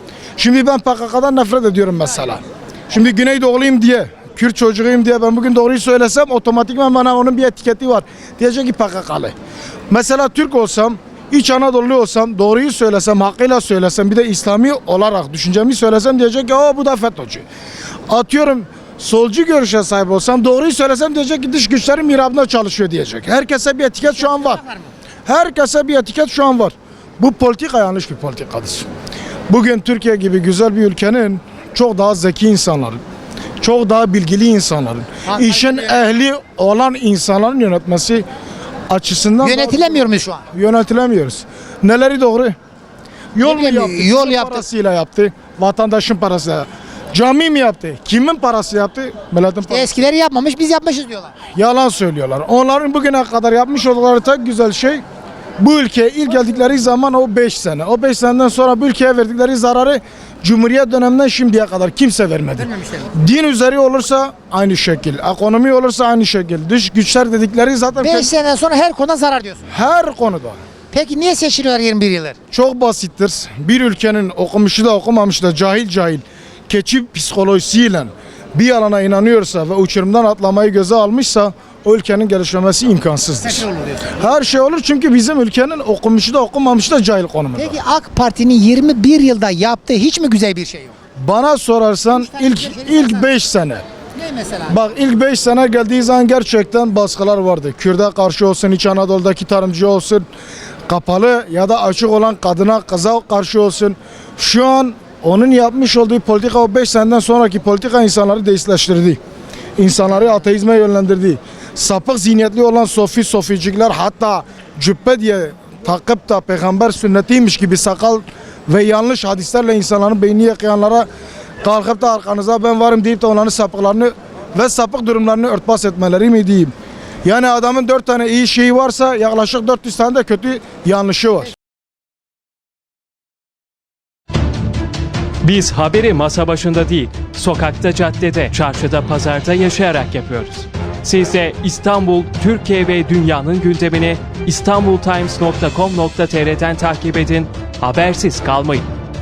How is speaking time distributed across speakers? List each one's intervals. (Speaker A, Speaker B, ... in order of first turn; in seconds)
Speaker A: 0.4-9.3, 9.9-17.4, 18.1-24.6, 25.3-28.9, 29.5-33.0, 33.6-38.3, 38.9-42.6, 43.4-50.0, 51.5-55.0, 55.6-68.3, 69.7-70.6, 72.5-83.7, 84.2-87.8, 91.2-93.8, 94.7-100.2, 100.9-109.2, 109.8-121.1, 121.6-126.7, 127.2-131.5
Speaker B: 24.0-24.9, 35.3-36.0, 39.4-40.4, 43.4-44.6, 49.7-51.4, 62.6-63.0, 68.0-69.7, 70.9-72.4, 83.5-84.1, 87.6-90.9, 92.1-93.3, 94.2-94.9
Speaker C: 135.4-148.8